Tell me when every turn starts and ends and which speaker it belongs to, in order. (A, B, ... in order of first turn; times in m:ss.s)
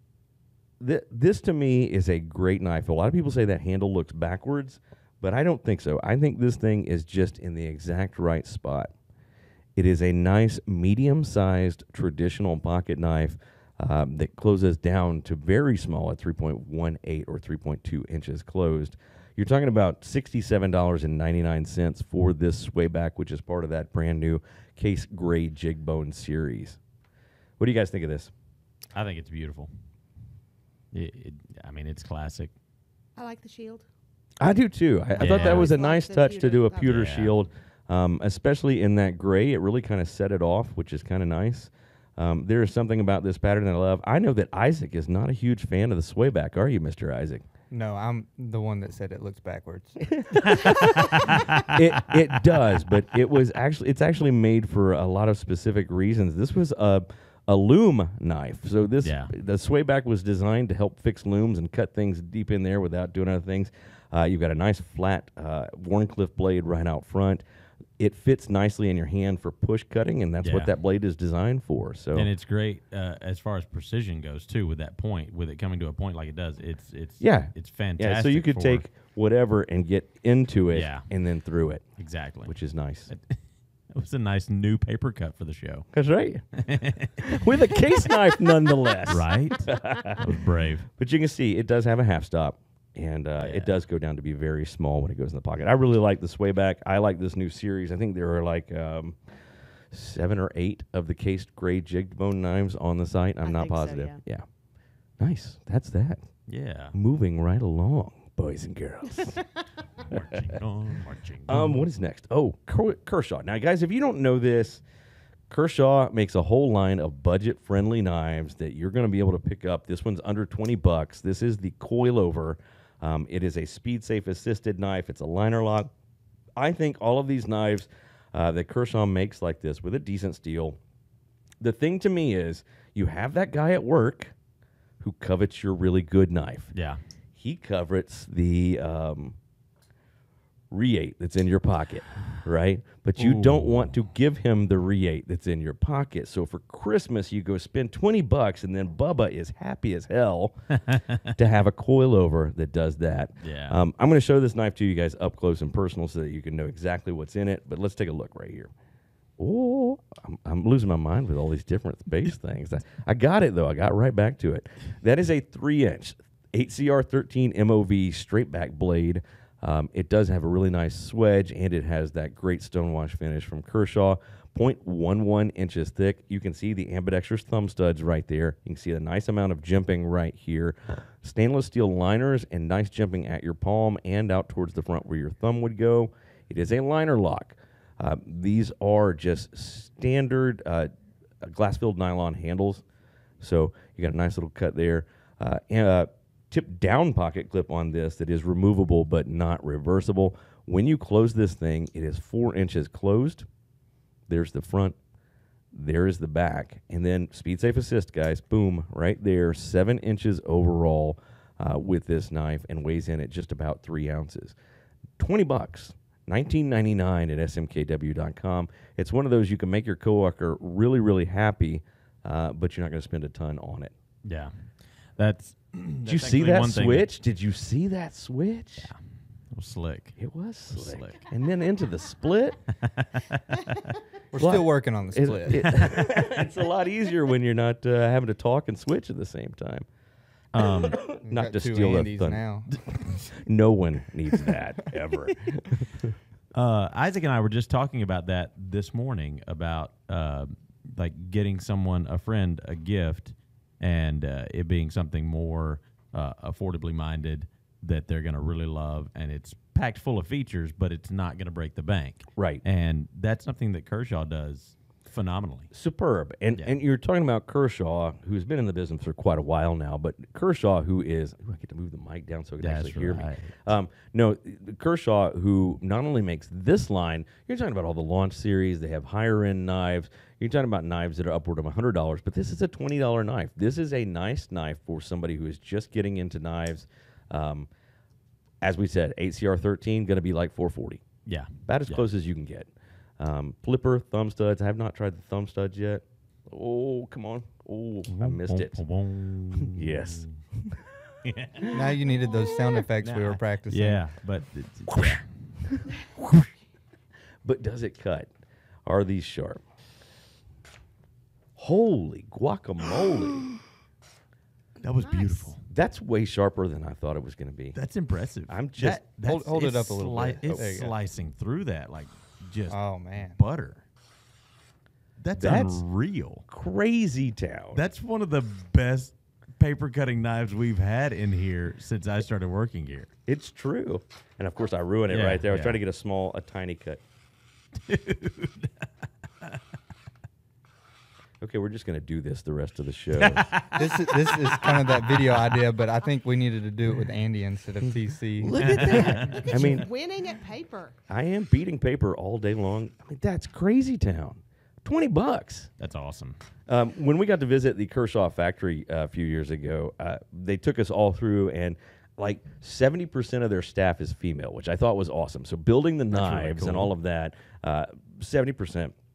0:00.8-0:08.9 A
0:09.8-0:26.8 A
0:27.6-0:28.3 A
0:28.9-0:29.7 B
0:30.9-0:32.5 B
0:33.2-0:33.9 C
0:34.4-0:47.4 A
0:35.2-0:37.1 C
0:35.2-0:35.7 B
0:36.8-0:37.3 B
0:47.7-0:51.4 D
0:50.2-1:07.4 A
0:50.5-0:51.7 B
0:59.0-0:59.3 B
1:08.0-1:12.3 A
1:10.4-1:10.7 B
1:12.1-1:18.9 B
1:17.2-1:21.8 A
1:20.7-1:21.0 B
1:22.0-1:22.6 B
1:22.4-1:23.1 A
1:23.1-1:25.9 B
1:25.9-1:26.4 A
1:26.5-1:27.8 B
1:27.2-1:30.3 A
1:29.1-1:30.9 B
1:31.0-1:39.2 A
1:33.4-1:33.7 B
1:39.9-1:44.4 A
1:43.4-1:44.2 C
1:45.2-1:46.3 A
1:46.5-1:47.0 B
1:46.9-1:49.4 A
1:50.0-1:51.8 B
1:51.5-1:54.8 A
1:55.5-2:05.9 A
2:06.6-2:10.8 A
2:11.6-2:14.3 A
2:15.0-2:16.7 A
2:16.7-2:17.0 B
2:17.4-2:19.4 A
2:20.7-2:30.7 A
2:23.2-2:23.9 B
2:30.8-2:31.3 B
2:31.3-2:38.7 A
2:33.4-2:33.8 B
2:39.4-3:10.9 A
3:11.4-3:12.8 A
3:13.4-3:23.5 A
3:24.3-3:25.0 A
3:25.7-3:34.6 A
3:35.2-3:43.9 A
3:44.2-3:44.6 B
3:45.2-3:47.1 B
3:46.0-3:48.9 A
3:48.8-3:50.2 B
3:50.2-3:52.6 A
3:50.7-3:51.2 B
3:52.7-3:54.0 B
3:54.3-3:55.8 D
3:54.4-3:59.9 A
3:55.5-3:56.3 B
4:00.5-4:01.0 B
4:00.6-4:06.1 A
4:01.2-4:02.7 D
4:06.5-4:25.7 B
4:22.4-4:22.6 A
4:25.7-4:47.7 A
4:32.6-4:33.7 B
4:48.6-4:51.0 A
4:51.2-4:52.1 B
4:51.6-4:58.8 A
4:58.1-5:00.4 B
4:59.7-5:00.8 A
5:01.2-5:02.1 B
5:01.7-5:04.0 D
5:03.0-5:05.3 B
5:04.9-5:06.5 A
5:07.4-5:08.3 A
5:08.9-5:09.6 A
5:11.6-5:13.5 A
5:14.8-5:15.6 B
5:15.0-5:15.5 C
5:15.7-5:17.8 A
5:17.8-5:23.8 B
5:18.5-5:19.0 A
5:19.2-5:21.0 D
5:22.7-5:23.4 D
5:25.2-5:26.4 B
5:25.4-5:25.8 A
5:26.5-5:27.8 A
5:27.7-5:33.1 B
5:33.3-5:37.0 A
5:35.1-5:35.8 B
5:37.8-5:39.6 B
5:41.4-5:43.6 A
5:43.2-5:45.6 B
5:43.7-5:48.8 D
5:48.4-5:49.9 A
5:48.6-5:49.6 B
5:48.8-5:51.0 C
5:51.1-5:55.7 A
5:55.8-5:56.4 B
5:56.7-6:08.9 A
6:06.1-6:06.9 B